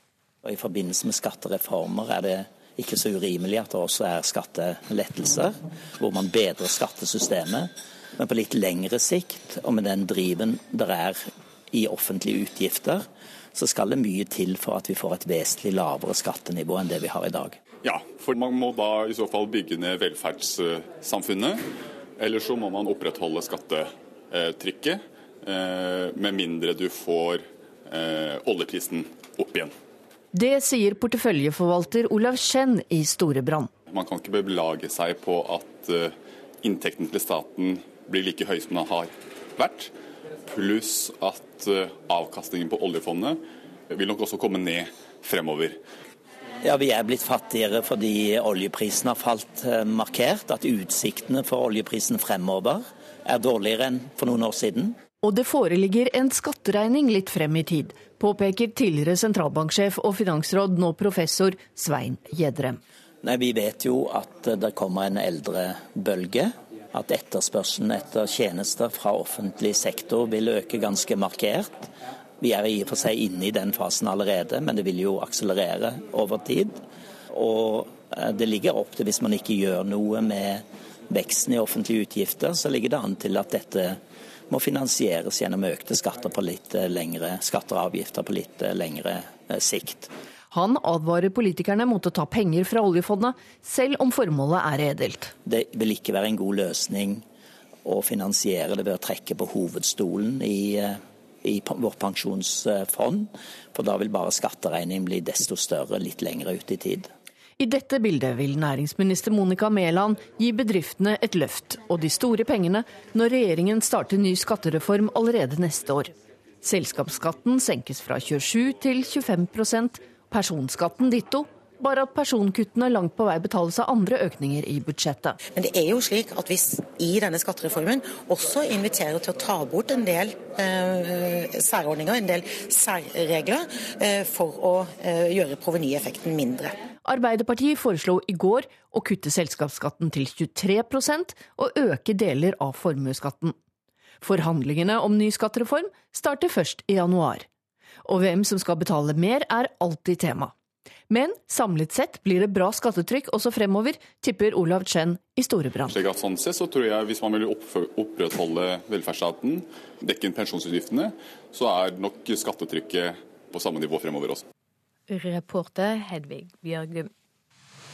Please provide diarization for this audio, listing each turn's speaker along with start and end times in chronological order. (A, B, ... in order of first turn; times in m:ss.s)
0:00.4-0:17.6 A
0:17.8-0:21.6 B
0:22.2-0:29.7 B
0:30.3-0:33.7 C
0:33.9-0:39.9 B
0:40.5-0:43.4 B
0:43.9-0:45.8 B
0:46.6-0:55.0 A
0:55.2-1:02.8 C
1:03.2-1:11.9 A
1:12.4-1:16.8 A
1:17.3-1:30.1 A
1:30.5-1:35.3 C
1:35.4-1:37.2 A
1:37.8-1:47.1 A
1:47.6-2:05.4 C
2:05.5-2:16.8 D
2:17.0-2:23.6 C
2:24.2-2:27.5 C
2:28.0-2:30.5 C
2:31.1-2:36.0 C
2:35.9-2:44.4 B
2:45.1-2:47.1 E